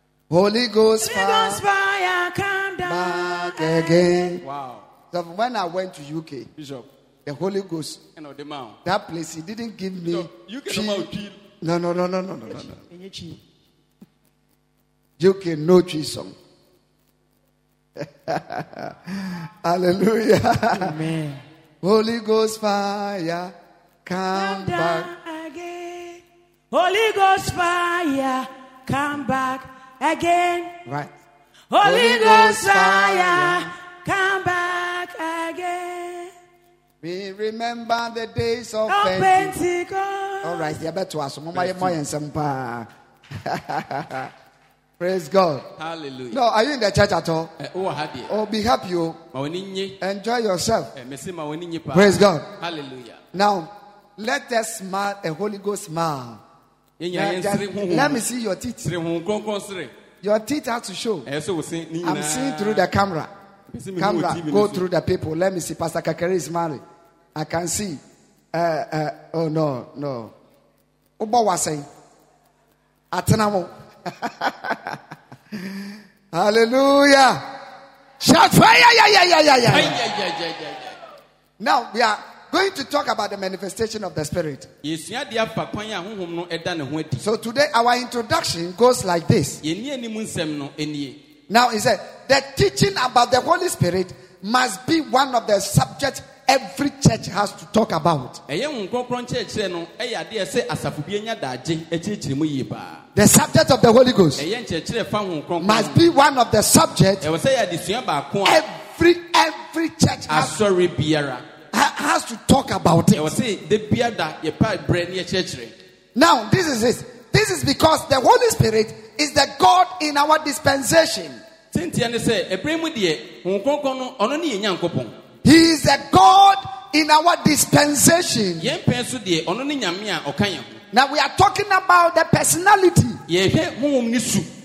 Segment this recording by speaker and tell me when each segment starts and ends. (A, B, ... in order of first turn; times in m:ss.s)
0:00.3-0:01.6 A
0:01.0-0:04.3 B
0:02.8-0:04.4 A
0:04.4-0:04.9 C
0:05.1-0:06.5 A
0:06.6-0:06.9 C
0:07.2-0:08.0 A
0:08.2-0:08.8 C
0:08.8-0:11.1 A
0:10.1-0:11.4 C
0:11.6-0:12.8 A
0:12.5-0:13.4 B
0:15.2-0:16.3 A
0:18.0-0:21.0 A
0:20.7-0:21.4 B
0:21.8-0:23.5 A
0:24.0-0:25.1 A
0:24.3-0:30.7 B
0:30.8-0:31.1 A
0:31.7-0:36.3 B
0:31.8-0:33.7 A
0:37.0-0:39.5 A
0:38.9-0:40.8 B
0:40.4-0:44.3 A
0:41.5-0:42.0 C
0:45.0-0:45.6 A
0:45.8-0:46.4 C
0:46.3-0:47.5 A
0:47.6-0:48.3 C
0:48.3-0:49.2 A
0:49.3-0:50.0 C
0:50.0-0:50.9 A
0:50.9-0:53.2 C
0:51.9-0:52.4 A
0:53.3-0:56.4 A
0:57.0-0:58.2 C
0:57.1-0:58.8 A
0:58.8-0:59.9 C
1:00.2-1:01.3 A
1:01.2-1:02.9 C
1:02.0-1:03.3 A
1:03.7-1:04.8 C
1:04.0-1:06.8 A
1:07.3-1:08.0 A
1:08.5-1:10.3 A
1:11.2-1:11.9 A
1:13.1-1:15.0 A
1:15.5-1:17.5 A
1:18.2-1:20.0 A
1:19.7-1:20.9 C
1:21.6-1:24.7 A
1:24.8-1:27.2 C
1:27.2-1:29.6 A
1:29.6-1:31.2 C
1:31.5-1:38.4 A
1:38.5-1:43.0 C
1:43.1-1:44.4 A
1:44.4-1:46.1 C
1:45.6-1:47.2 A
1:47.2-1:48.6 C
1:48.4-1:50.5 A
1:50.3-1:51.4 C
1:51.7-1:53.3 A
1:53.1-1:55.7 C
1:56.1-2:01.4 A
2:01.7-2:05.2 C
2:05.4-2:08.7 A
2:08.6-2:10.8 C
2:10.9-2:13.2 A
2:13.3-2:14.5 C